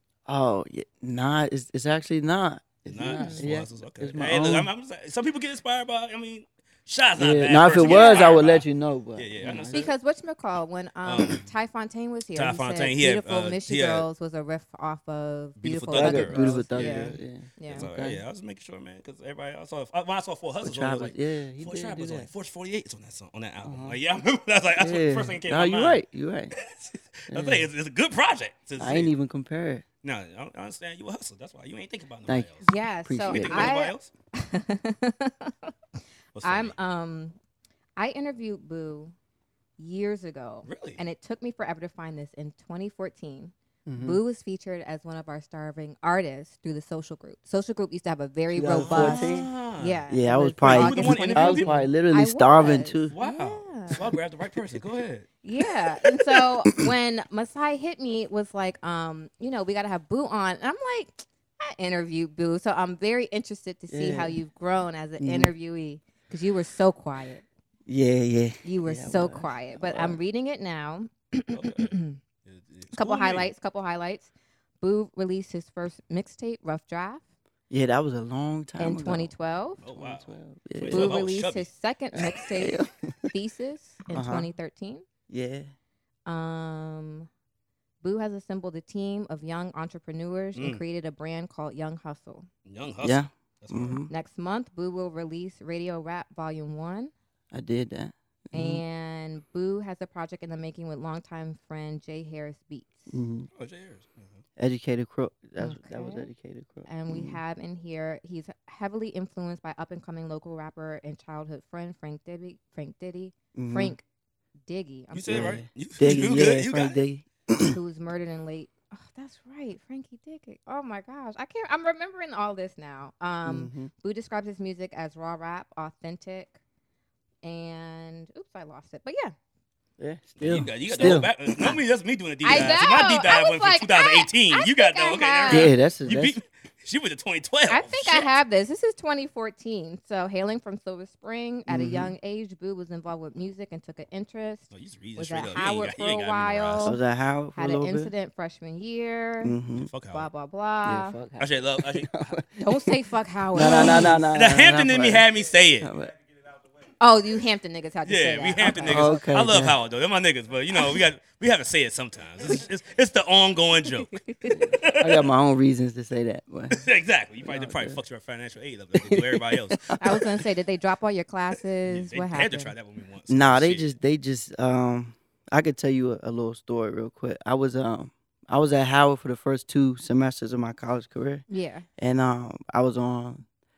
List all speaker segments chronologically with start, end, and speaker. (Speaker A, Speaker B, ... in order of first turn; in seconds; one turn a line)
Speaker A: 0.2-4.7
Speaker B: 2.9-9.9
Speaker C: 3.0-3.5
Speaker A: 7.2-9.8
Speaker C: 7.8-8.3
Speaker C: 9.7-17.9
Speaker B: 11.0-11.5
Speaker B: 12.3-14.1
Speaker B: 15.6-17.2
Speaker A: 15.9-18.2
Speaker B: 17.7-26.0
Speaker A: 20.6-22.3
Speaker A: 23.6-24.0
Speaker A: 24.8-26.5
Speaker B: 26.5-29.1
Speaker A: 27.3-27.7
Speaker A: 28.8-29.8
Speaker B: 30.0-32.7
Speaker C: 32.6-35.7
Speaker A: 33.0-33.7
Speaker B: 33.3-34.1
Speaker B: 36.3-36.7
Speaker C: 36.4-37.4
Speaker C: 38.0-39.1
Speaker C: 39.8-54.1
Speaker B: 40.7-41.0
Speaker A: 43.9-44.2
Speaker A: 48.5-49.5
Speaker B: 48.8-50.0
Speaker A: 50.1-53.1
Speaker B: 50.6-51.8
Speaker B: 53.1-55.3
Speaker C: 55.4-67.4
Speaker A: 63.9-64.4
Speaker A: 65.2-65.5
Speaker A: 67.9-70.2
Speaker C: 68.6-72.2
Speaker B: 71.5-71.9
Speaker B: 72.5-73.5
Speaker C: 72.9-77.2
Speaker A: 77.7-79.3
Speaker C: 78.8-79.8
Speaker B: 79.8-81.7
Speaker A: 79.9-81.2
Speaker C: 80.9-85.0
Speaker A: 82.1-83.3
Speaker A: 84.1-84.5
Speaker A: 85.3-85.7
Speaker C: 86.2-87.3
Speaker C: 88.0-92.5
Speaker B: 90.5-90.8
Speaker B: 92.7-94.0
Speaker A: 93.0-94.1
Speaker C: 94.1-97.1
Speaker A: 97.5-98.8
Speaker C: 98.5-103.1
Speaker A: 103.1-103.5
Speaker B: 103.5-104.4
Speaker A: 104.6-107.4
Speaker C: 105.6-106.3
Speaker C: 106.8-114.0
Speaker A: 113.5-113.9
Speaker C: 114.7-115.6
Speaker B: 115.1-117.0
Speaker A: 115.3-117.8
Speaker C: 117.6-126.5
Speaker A: 123.5-123.9
Speaker C: 127.4-129.3
Speaker A: 130.0-131.8
Speaker B: 130.4-138.3
Speaker C: 132.4-135.7
Speaker A: 135.5-136.3
Speaker C: 137.7-147.0
Speaker A: 141.7-142.1
Speaker B: 144.7-147.0
Speaker A: 146.8-148.1
Speaker C: 147.5-149.5
Speaker A: 149.4-149.9
Speaker B: 149.8-150.3
Speaker C: 150.1-151.2
Speaker A: 150.8-152.9
Speaker B: 151.4-152.3
Speaker C: 152.6-154.2
Speaker A: 153.5-155.2
Speaker B: 153.6-155.9
Speaker A: 155.8-156.1
Speaker C: 157.0-159.2
Speaker B: 158.0-165.3
Speaker A: 158.8-159.8
Speaker C: 164.1-164.7
Speaker A: 164.5-166.9
Speaker B: 166.7-170.0
Speaker A: 167.4-168.0
Speaker A: 168.9-170.2
Speaker C: 170.0-172.7
Speaker B: 171.8-173.9
Speaker A: 173.3-181.4
Speaker C: 181.5-181.8
Speaker A: 182.0-183.4